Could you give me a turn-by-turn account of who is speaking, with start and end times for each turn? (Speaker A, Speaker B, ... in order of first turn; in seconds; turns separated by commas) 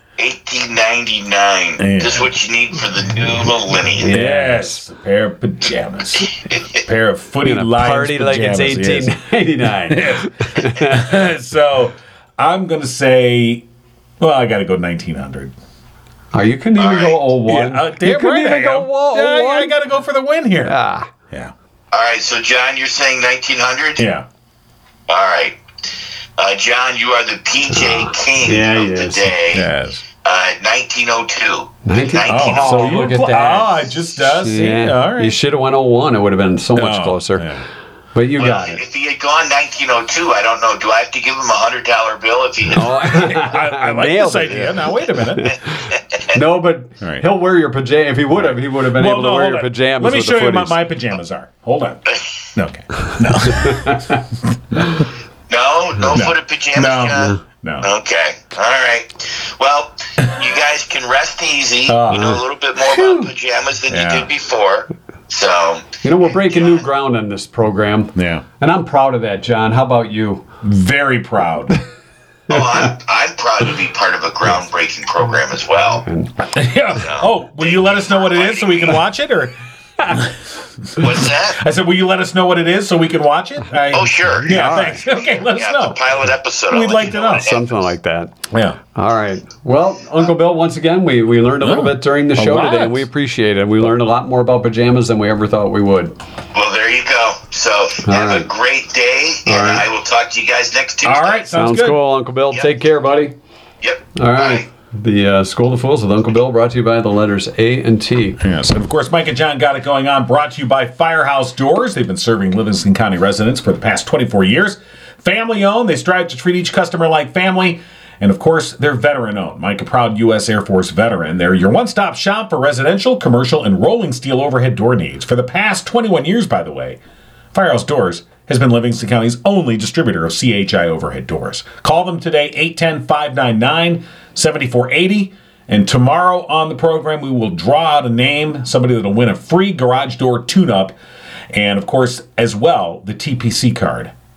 Speaker A: 0.2-4.2, Speaker B: 1.8-2.3, Speaker C: 4.0-4.8, Speaker B: 4.0-9.1, Speaker C: 7.4-11.1, Speaker B: 9.8-13.6, Speaker B: 14.2-15.5, Speaker C: 16.3-19.8, Speaker A: 16.8-17.2, Speaker B: 17.4-20.7, Speaker C: 20.6-21.1, Speaker A: 21.9-24.1, Speaker B: 24.0-24.2, Speaker A: 25.1-25.6, Speaker A: 26.4-29.7, Speaker C: 27.7-29.3, Speaker B: 29.5-30.1, Speaker A: 30.2-33.1, Speaker C: 31.8-37.5, Speaker B: 32.2-35.4, Speaker B: 36.7-37.6, Speaker C: 38.1-38.8, Speaker A: 38.4-43.3, Speaker C: 42.7-45.6, Speaker B: 43.0-45.6, Speaker A: 45.9-46.4, Speaker C: 46.3-50.8, Speaker B: 47.0-47.3, Speaker B: 48.7-54.2, Speaker A: 52.1-52.5, Speaker C: 53.5-54.2, Speaker A: 55.5-66.8, Speaker B: 56.1-57.9, Speaker C: 57.1-57.4, Speaker B: 61.9-62.4, Speaker C: 62.1-63.3, Speaker B: 63.9-64.3, Speaker C: 66.0-70.5, Speaker B: 68.1-68.4, Speaker B: 70.6-71.8, Speaker A: 72.5-76.0, Speaker C: 76.0-76.3, Speaker B: 76.5-79.5, Speaker A: 77.0-79.0, Speaker B: 80.1-80.3, Speaker B: 80.9-86.0, Speaker A: 81.0-81.6, Speaker A: 83.9-87.7, Speaker C: 84.5-85.0, Speaker B: 86.7-87.5, Speaker C: 87.3-96.2, Speaker B: 88.5-88.8, Speaker B: 91.6-93.0, Speaker A: 96.5-101.4, Speaker C: 98.0-98.5, Speaker C: 99.5-99.9, Speaker B: 101.0-102.0, Speaker C: 101.5-103.3, Speaker A: 103.8-104.7, Speaker C: 104.1-108.4, Speaker B: 108.4-127.0, Speaker B: 127.5-140.9, Speaker B: 141.5-144.1